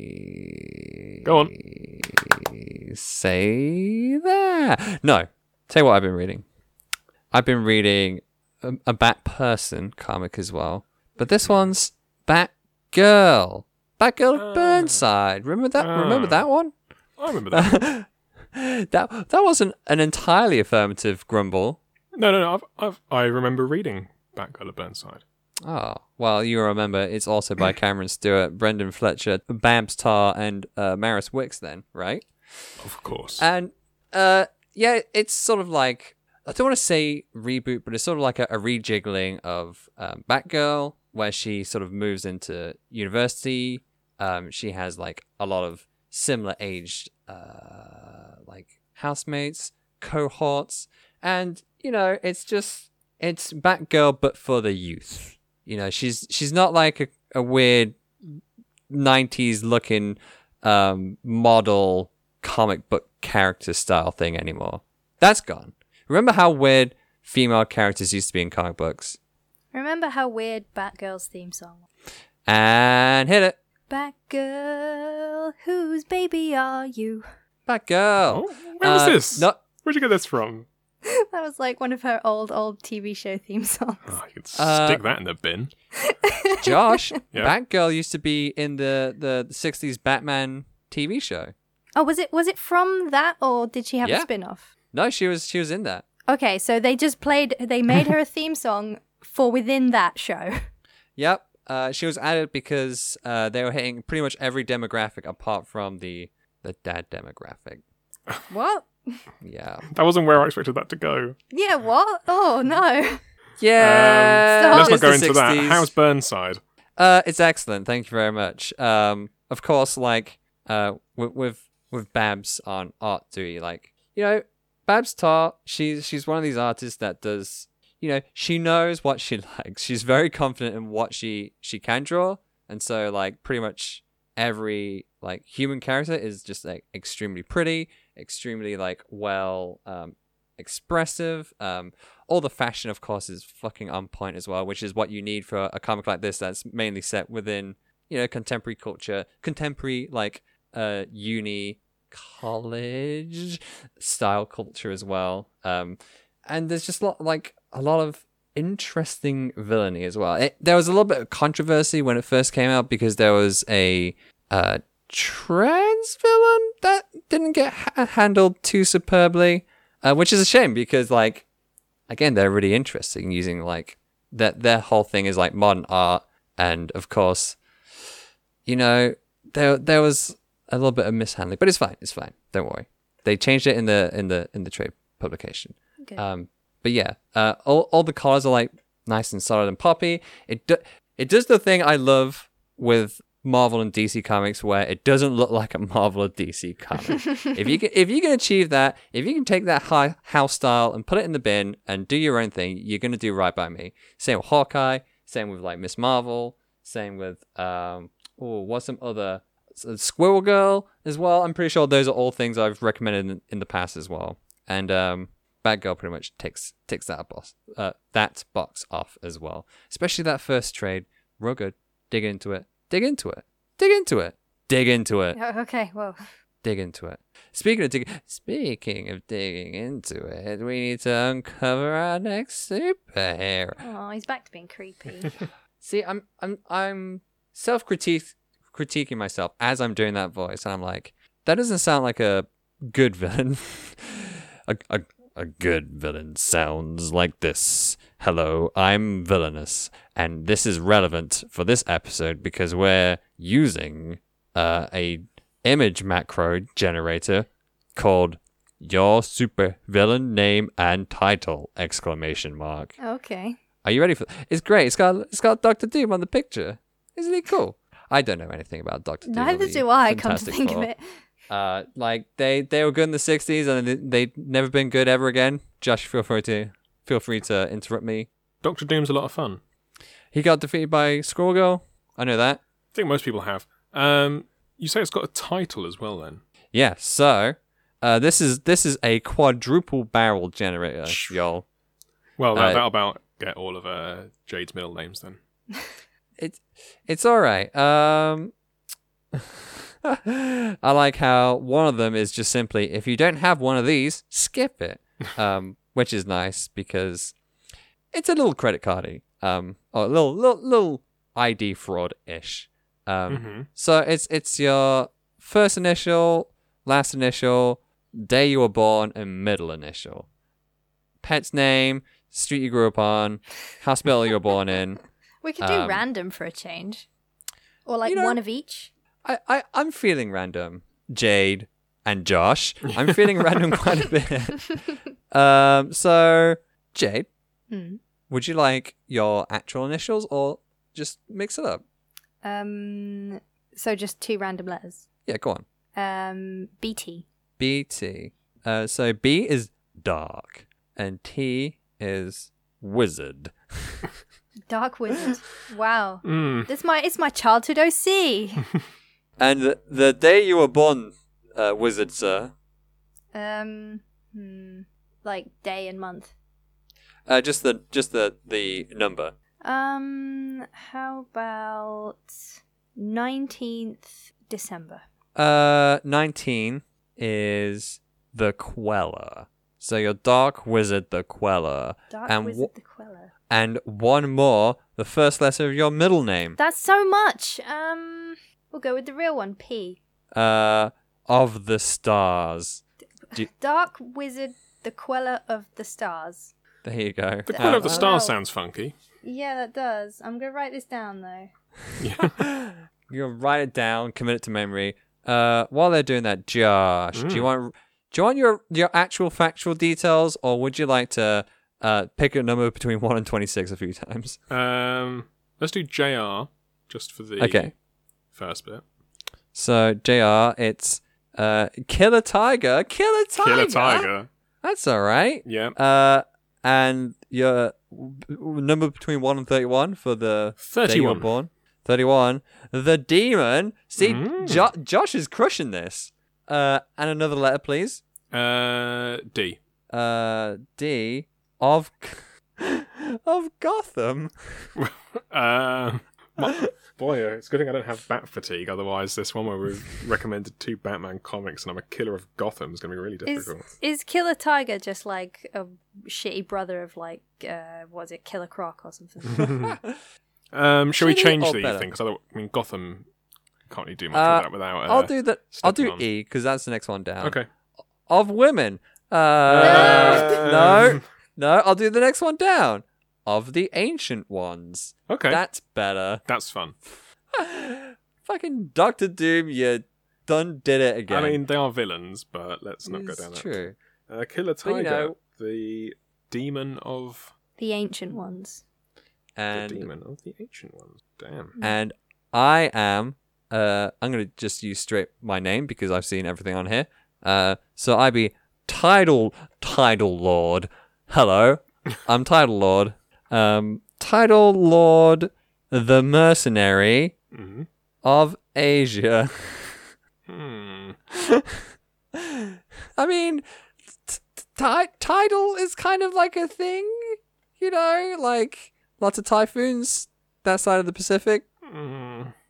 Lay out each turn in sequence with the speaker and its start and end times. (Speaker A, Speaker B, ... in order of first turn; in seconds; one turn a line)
Speaker A: 0.5-6.4
Speaker B: 1.2-1.6
Speaker A: 7.3-16.7
Speaker B: 11.4-11.7
Speaker B: 14.3-15.0
Speaker B: 15.8-16.4
Speaker B: 17.2-17.8
Speaker A: 17.5-21.8
Speaker B: 22.1-25.2
Speaker A: 25.6-32.8
Speaker B: 32.8-33.5
Speaker A: 33.4-69.2
Speaker C: 69.7-71.9
Speaker A: 72.5-73.6
Speaker C: 73.9-77.3
Speaker A: 77.7-79.6
Speaker B: 78.3-80.7
Speaker C: 81.0-84.1
Speaker B: 84.0-85.7
Speaker A: 84.5-85.1
Speaker C: 86.0-87.1
Speaker A: 86.6-91.5
Speaker C: 92.0-94.7
Speaker A: 94.9-96.0
Speaker C: 96.3-100.7
Speaker A: 101.2-107.8
Speaker C: 108.5-109.3
Speaker A: 109.4-109.9
Speaker B: 109.9-111.4
Speaker C: 111.5-113.2
Speaker A: 113.6-115.9
Speaker B: 113.8-116.6
Speaker C: 114.5-115.0
Speaker A: 117.0-171.4
Speaker A: 172.1-178.0
Speaker A: 178.7-225.4
Speaker C: 225.3-226.2
Speaker A: 226.6-233.8
Speaker C: 233.8-235.4
Speaker A: 235.8-262.9
Speaker C: 263.0-263.6
Speaker A: 263.8-270.9
Speaker C: 269.2-271.2
Speaker A: 271.5-278.3
Speaker B: 278.6-279.6
Speaker A: 280.3-282.6
Speaker B: 282.9-286.4
Speaker A: 286.7-291.6
Speaker B: 291.1-291.4
Speaker B: 292.4-295.4
Speaker A: 292.5-292.8
Speaker A: 296.4-298.5
Speaker A: 299.3-307.4
Speaker A: 308.1-320.3
Speaker B: 313.3-313.7
Speaker A: 321.2-325.0
Speaker C: 325.4-327.1
Speaker A: 325.6-326.0
Speaker C: 327.9-328.9
Speaker A: 328.1-328.4
Speaker A: 329.2-337.3
Speaker C: 337.7-338.0
Speaker A: 338.3-341.8
Speaker C: 342.4-345.1
Speaker A: 345.2-345.6
Speaker C: 345.9-347.2
Speaker A: 347.6-354.1
Speaker C: 354.7-358.7
Speaker B: 356.2-356.7
Speaker A: 359.4-362.5
Speaker C: 363.3-366.3
Speaker A: 367.2-369.3
Speaker C: 369.6-375.0
Speaker A: 375.4-382.7
Speaker C: 382.1-383.3
Speaker A: 383.5-386.6
Speaker C: 386.6-390.0
Speaker A: 390.3-392.8
Speaker C: 393.3-396.5
Speaker A: 396.8-398.1
Speaker B: 397.5-398.9
Speaker C: 397.5-398.3
Speaker C: 399.2-401.5
Speaker B: 402.0-402.4
Speaker A: 402.4-414.4
Speaker B: 407.1-407.5
Speaker B: 414.5-417.7
Speaker A: 417.4-417.7
Speaker B: 418.3-418.8
Speaker A: 419.5-424.1
Speaker B: 423.4-424.3
Speaker A: 424.6-438.0
Speaker B: 425.4-425.8
Speaker B: 430.6-431.3
Speaker B: 434.0-434.6
Speaker B: 438.3-439.6
Speaker A: 439.9-444.7
Speaker B: 444.8-453.7
Speaker C: 453.2-459.5
Speaker B: 459.3-459.7
Speaker B: 460.5-463.1
Speaker A: 461.0-461.9
Speaker B: 463.7-466.0
Speaker A: 464.1-467.4
Speaker B: 467.2-467.5
Speaker A: 468.1-476.2
Speaker B: 469.5-471.0
Speaker C: 469.6-470.4
Speaker B: 475.1-475.4
Speaker B: 476.2-476.8
Speaker A: 477.3-481.4
Speaker B: 481.1-487.3
Speaker A: 482.9-483.7
Speaker A: 484.6-485.1
Speaker C: 487.6-488.6
Speaker A: 489.4-489.9
Speaker B: 489.5-491.6
Speaker A: 491.6-507.1
Speaker B: 507.3-507.7
Speaker A: 508.0-509.9
Speaker B: 510.3-511.0
Speaker A: 511.1-513.4
Speaker A: 514.0-521.4
Speaker B: 521.6-522.3